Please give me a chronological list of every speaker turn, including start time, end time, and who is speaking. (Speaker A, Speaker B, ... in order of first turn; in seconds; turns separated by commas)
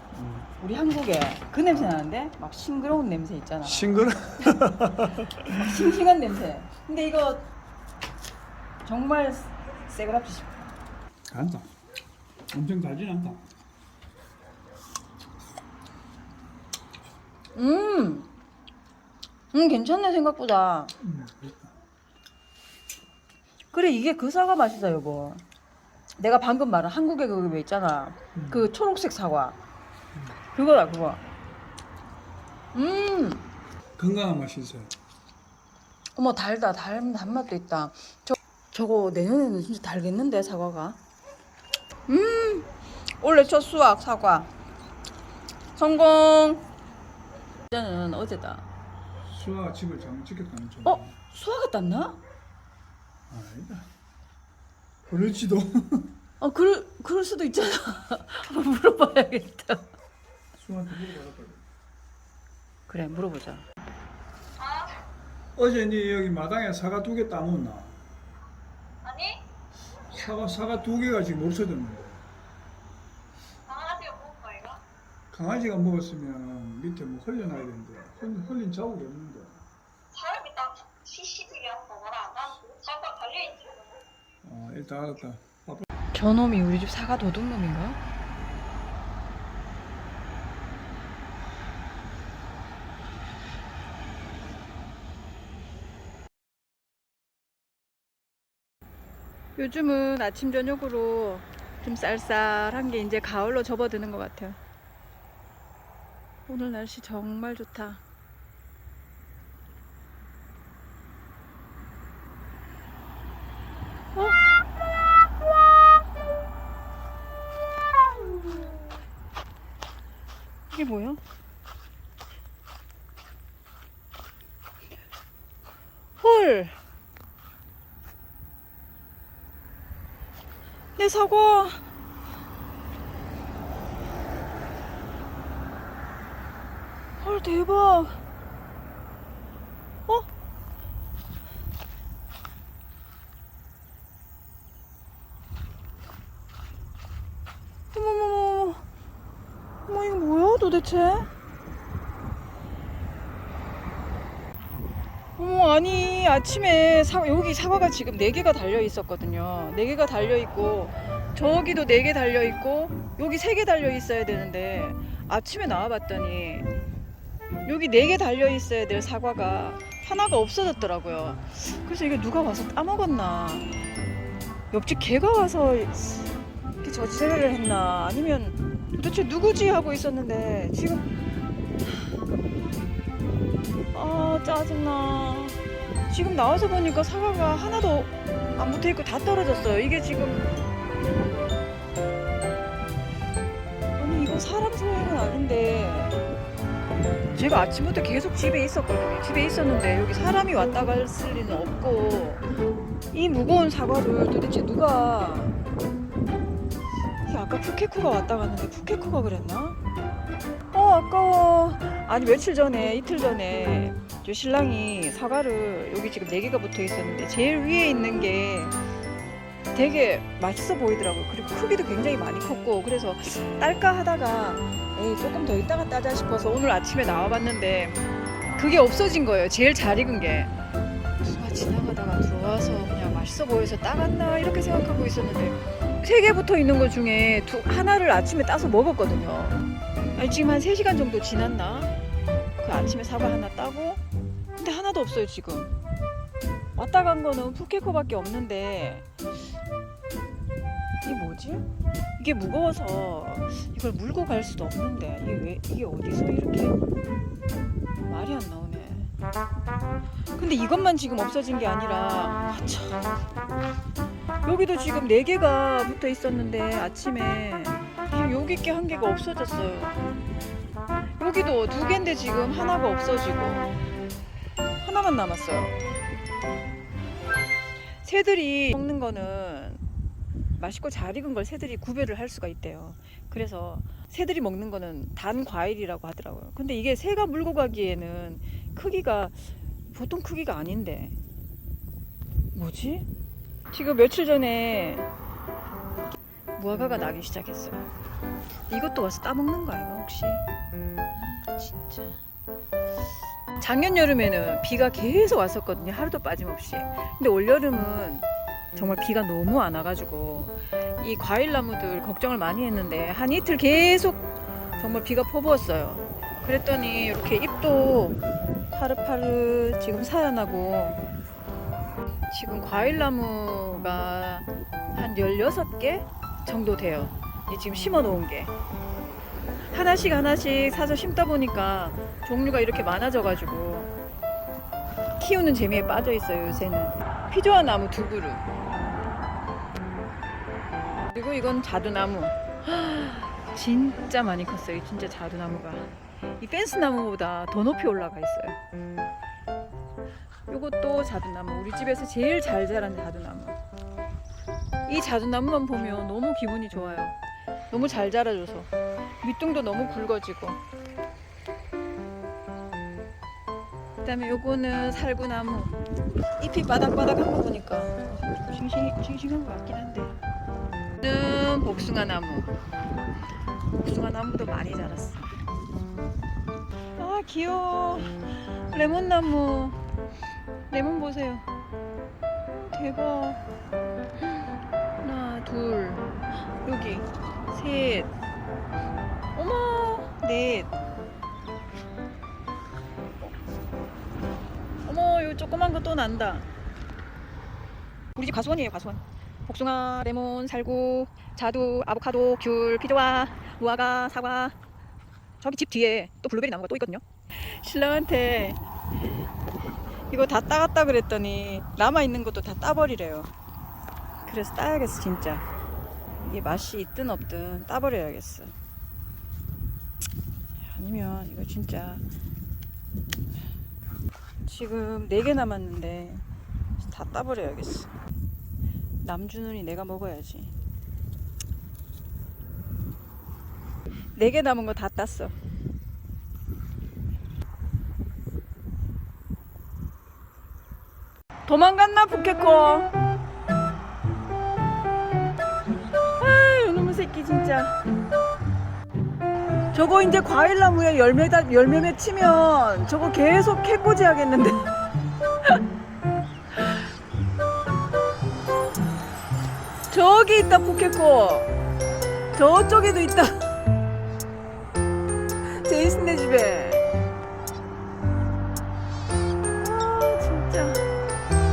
Speaker A: 0.1-0.5, Speaker B: 0.6-4.0, Speaker A: 3.6-5.7, Speaker B: 5.3-7.5, Speaker B: 8.8-10.7, Speaker A: 11.3-11.7, Speaker A: 12.5-13.4, Speaker B: 17.5-18.3, Speaker B: 19.5-20.9, Speaker A: 21.0-21.8, Speaker B: 23.7-25.4, Speaker B: 26.2-29.6, Speaker A: 28.3-28.7, Speaker B: 30.5-31.2, Speaker B: 32.7-33.5, Speaker A: 34.0-34.9, Speaker B: 36.1-41.0, Speaker B: 42.1-42.7, Speaker B: 43.2-44.5, Speaker B: 45.7-46.6, Speaker B: 47.7-48.6, Speaker A: 49.3-51.1, Speaker B: 50.8-52.2, Speaker A: 53.3-53.9, Speaker A: 55.1-56.1, Speaker B: 56.4-59.9, Speaker A: 60.5-61.6, Speaker B: 62.9-63.6, Speaker A: 65.5-68.0, Speaker C: 69.0-69.4, Speaker A: 70.1-72.2, Speaker C: 73.7-74.8, Speaker A: 75.3-79.6, Speaker C: 80.2-83.9, Speaker A: 84.4-85.9, Speaker B: 86.1-88.0, Speaker B: 99.5-104.6, Speaker B: 106.5-108.0, Speaker B: 118.1-118.8, Speaker B: 120.7-121.2, Speaker B: 126.2-126.8, Speaker B: 131.0-131.8, Speaker B: 137.2-138.2, Speaker B: 147.9-148.8, Speaker B: 149.9-151.3, Speaker B: 155.4-166.7, Speaker B: 167.6-173.8, Speaker B: 174.7-181.1, Speaker B: 183.9-190.4, Speaker B: 194.0-196.2, Speaker B: 197.3-202.4, Speaker B: 203.1-205.6, Speaker B: 207.2-209.8, Speaker B: 210.7-218.8, Speaker B: 219.7-228.0, Speaker B: 228.5-230.5, Speaker B: 231.2-239.6, Speaker B: 240.2-241.9, Speaker B: 242.6-244.0, Speaker B: 244.5-245.7, Speaker B: 246.8-249.1, Speaker B: 251.0-251.7, Speaker B: 252.2-256.8, Speaker B: 258.1-259.1, Speaker B: 260.4-263.0, Speaker B: 264.4-270.1, Speaker B: 271.2-273.7, Speaker B: 274.8-275.8, Speaker B: 278.0-279.8, Speaker B: 280.6-291.1, Speaker B: 292.5-293.1, Speaker B: 293.7-295.1, Speaker B: 296.6-297.9, Speaker B: 298.7-300.4, Speaker B: 301.1-302.2, Speaker B: 303.6-314.3, Speaker B: 314.8-318.2, Speaker B: 318.7-321.0, Speaker B: 322.3-328.5, Speaker B: 329.7-333.9, Speaker B: 335.2-338.5, Speaker B: 341.1-348.6, Speaker B: 350.5-353.6, Speaker B: 354.9-357.1, Speaker B: 357.7-358.7, Speaker B: 359.2-360.6, Speaker B: 364.0-365.8, Speaker B: 366.4-370.1, Speaker B: 371.0-372.5, Speaker B: 373.8-375.3, Speaker B: 377.0-379.8, Speaker B: 380.7-381.4, Speaker B: 382.7-383.4, Speaker B: 385.0-386.1, Speaker B: 386.6-388.1, Speaker B: 389.3-390.7, Speaker B: 394.8-396.5, Speaker B: 398.1-404.6, Speaker B: 405.4-408.6, Speaker B: 410.1-413.3, Speaker B: 414.2-415.4, Speaker B: 416.2-418.5, Speaker B: 420.7-422.0, Speaker B: 424.4-426.2, Speaker B: 426.8-427.9, Speaker B: 429.0-430.5, Speaker B: 434.1-435.3, Speaker B: 441.5-442.9, Speaker B: 446.1-447.8, Speaker B: 449.7-454.8, Speaker B: 459.9-461.5, Speaker B: 462.3-463.5, Speaker B: 465.4-466.8, Speaker B: 469.6-470.8